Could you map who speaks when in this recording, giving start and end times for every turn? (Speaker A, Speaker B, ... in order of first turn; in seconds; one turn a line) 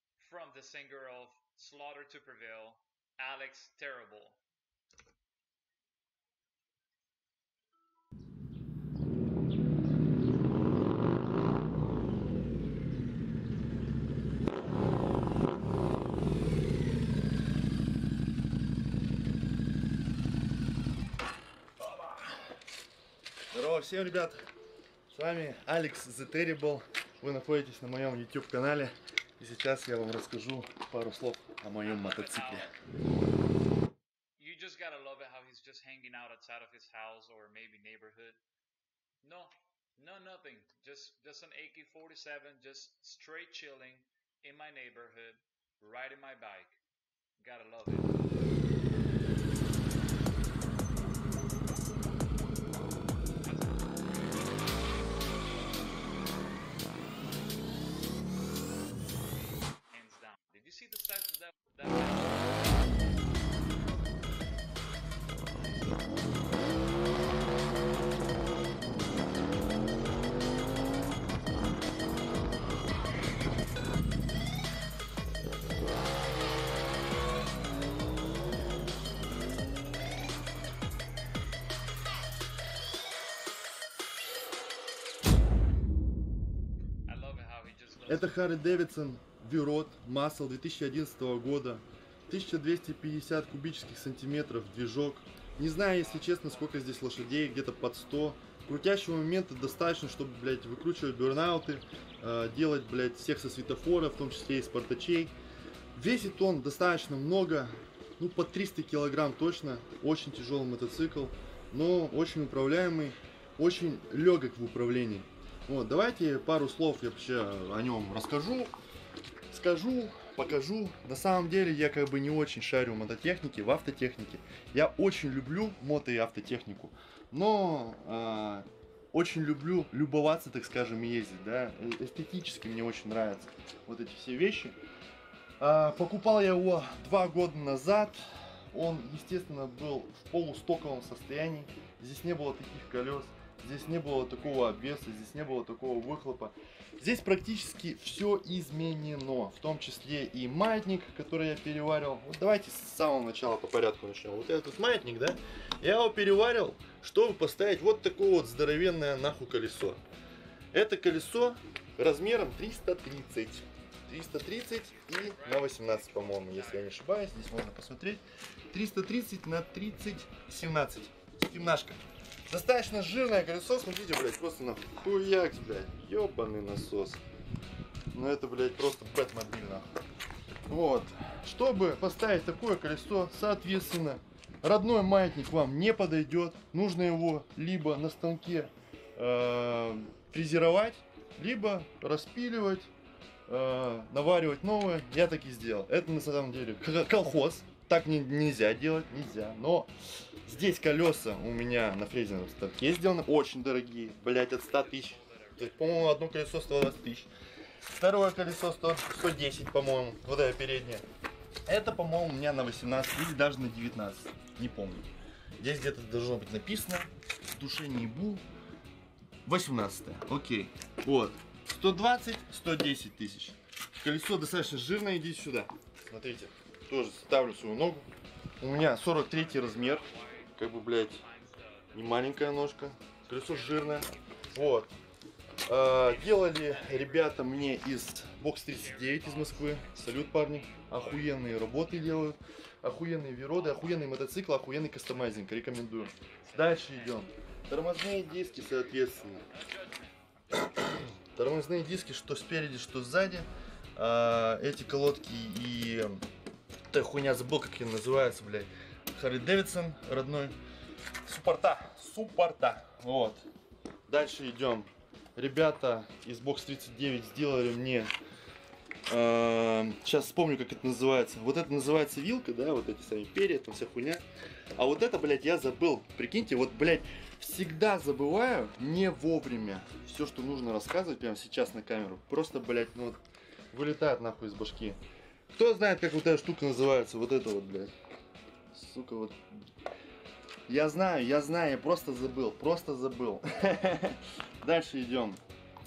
Speaker A: 0.2-4.4
Speaker B: 21.8-22.2
Speaker B: 23.5-24.4
Speaker B: 25.1-32.7
Speaker A: 31.8-32.7
Speaker A: 34.4-38.4
Speaker A: 39.2-46.8
Speaker A: 47.4-48.1
Speaker A: 53.4-54.3
Speaker A: 59.9-62.8
Speaker A: 87.1-88.7
Speaker B: 88.1-105.3
Speaker A: 95.9-97.5
Speaker B: 106.0-118.7
Speaker B: 119.5-134.8
Speaker B: 135.6-160.0
Speaker A: 143.8-145.4
Speaker B: 160.7-177.2
Speaker A: 164.9-167.1
Speaker B: 178.1-179.8
Speaker B: 180.7-192.9
Speaker B: 193.5-199.9
Speaker B: 200.4-207.3
Speaker A: 204.4-206.3
Speaker B: 207.9-211.0
Speaker B: 211.7-215.1
Speaker B: 215.6-218.4
Speaker B: 219.4-228.1
Speaker B: 228.6-231.2
Speaker A: 229.1-234.9
Speaker B: 231.9-234.9
Speaker B: 235.7-249.4
Speaker A: 235.9-237.9
Speaker A: 238.7-242.3
Speaker A: 243.5-244.2
Speaker A: 245.2-247.3
Speaker A: 247.8-250.9
Speaker B: 251.3-256.2
Speaker B: 256.9-260.6
Speaker B: 261.2-263.4
Speaker B: 264.1-268.1
Speaker B: 269.1-274.2
Speaker B: 274.8-283.2
Speaker B: 283.7-285.0
Speaker B: 285.5-287.9
Speaker B: 288.7-289.4
Speaker B: 290.7-295.4